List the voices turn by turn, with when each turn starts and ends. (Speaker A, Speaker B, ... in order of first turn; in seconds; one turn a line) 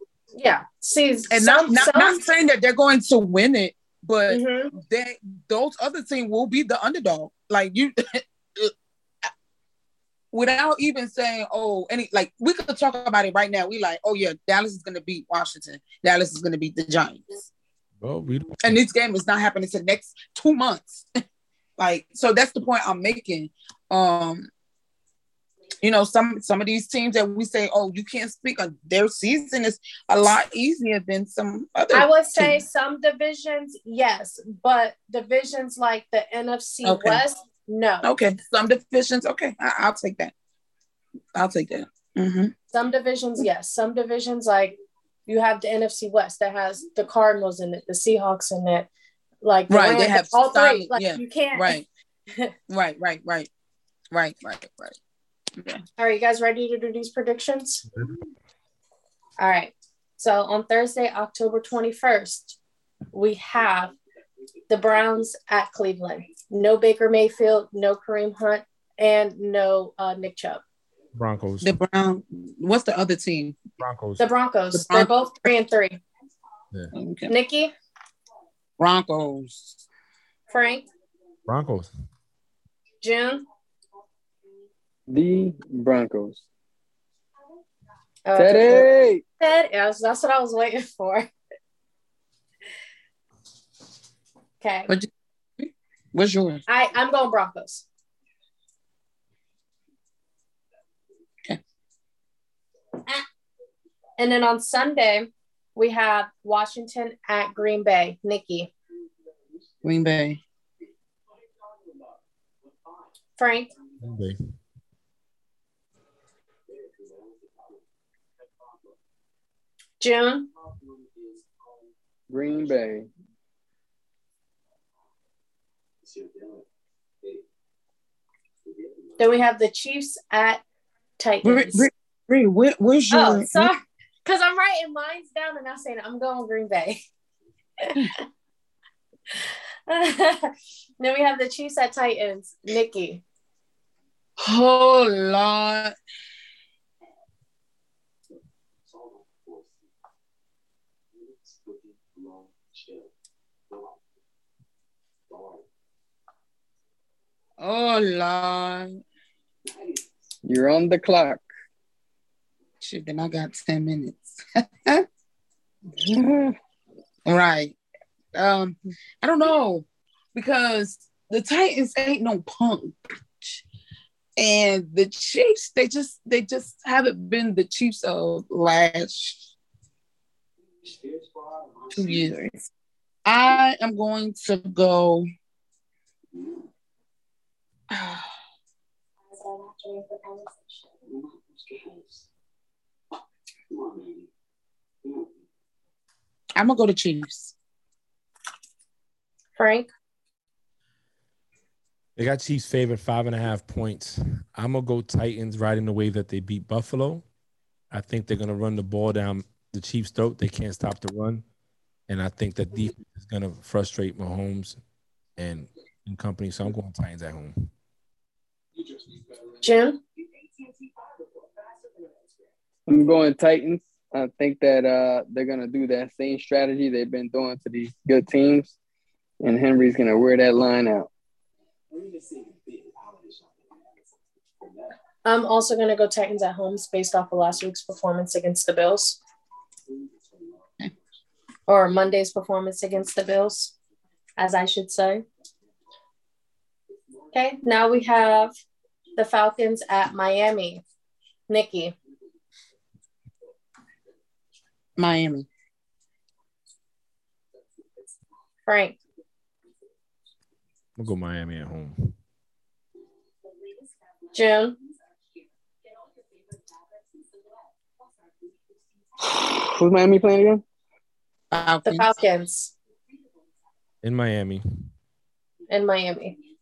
Speaker A: 0.4-2.2
Speaker B: 1.3-8.7
Speaker A: 4.3-4.7
Speaker B: 10.3-17.5
Speaker C: 18.0-18.8
Speaker B: 18.6-21.1
Speaker B: 21.8-24.5
Speaker B: 25.8-32.6
Speaker A: 31.9-38.1
Speaker B: 36.8-37.2
Speaker B: 38.0-40.3
Speaker B: 41.3-42.5
Speaker A: 42.7-44.8
Speaker A: 45.3-48.9
Speaker A: 49.4-51.8
Speaker B: 49.7-51.9
Speaker B: 52.7-53.5
Speaker B: 54.1-55.0
Speaker A: 56.0-57.8
Speaker A: 59.4-62.6
Speaker A: 63.1-64.0
Speaker A: 64.7-70.6
Speaker C: 71.1-71.7
Speaker B: 71.6-73.6
Speaker C: 73.8-74.2
Speaker A: 74.2-76.0
Speaker B: 74.7-75.1
Speaker B: 76.9-77.3
Speaker A: 77.3-77.7
Speaker B: 78.8-79.8
Speaker A: 80.5-80.8
Speaker C: 81.5-81.9
Speaker A: 83.0-83.4
Speaker D: 85.1-86.4
Speaker A: 88.2-88.9
Speaker D: 88.3-89.2
Speaker A: 89.4-91.3
Speaker A: 94.6-94.9
Speaker B: 94.9-96.6
Speaker A: 96.7-97.8
Speaker A: 104.2-108.7
Speaker B: 109.8-110.4
Speaker A: 113.4-113.7
Speaker C: 114.0-114.4
Speaker A: 120.0-120.5
Speaker D: 122.3-123.1
Speaker A: 129.2-130.6
Speaker A: 131.2-131.9
Speaker B: 131.4-133.7
Speaker A: 133.1-137.0
Speaker A: 137.8-138.1
Speaker A: 139.9-143.2
Speaker B: 144.4-145.9
Speaker B: 157.6-159.0
Speaker D: 160.4-161.4
Speaker B: 162.8-165.1
Speaker D: 166.0-166.6
Speaker B: 167.2-167.8
Speaker B: 168.3-173.6
Speaker B: 174.4-179.5
Speaker B: 181.9-182.4
Speaker D: 182.2-182.6
Speaker B: 183.2-185.3
Speaker B: 187.9-188.3
Speaker A: 189.4-190.8
Speaker B: 196.6-197.5
Speaker A: 199.6-199.9
Speaker C: 202.2-207.2
Speaker C: 207.9-211.4
Speaker C: 212.1-214.8
Speaker C: 215.4-217.7
Speaker A: 219.6-220.0
Speaker D: 222.9-228.7
Speaker D: 229.4-231.1
Speaker A: 235.2-239.2
Speaker A: 241.7-243.7
Speaker A: 244.4-245.2
Speaker A: 247.3-248.5
Speaker A: 249.2-250.8
Speaker A: 251.5-251.9
Speaker B: 255.0-255.5
Speaker A: 258.6-259.0
Speaker C: 261.0-262.1
Speaker A: 264.3-264.8
Speaker D: 269.2-270.6
Speaker B: 271.5-272.1
Speaker A: 271.8-272.7
Speaker C: 274.0-274.6
Speaker A: 275.7-276.4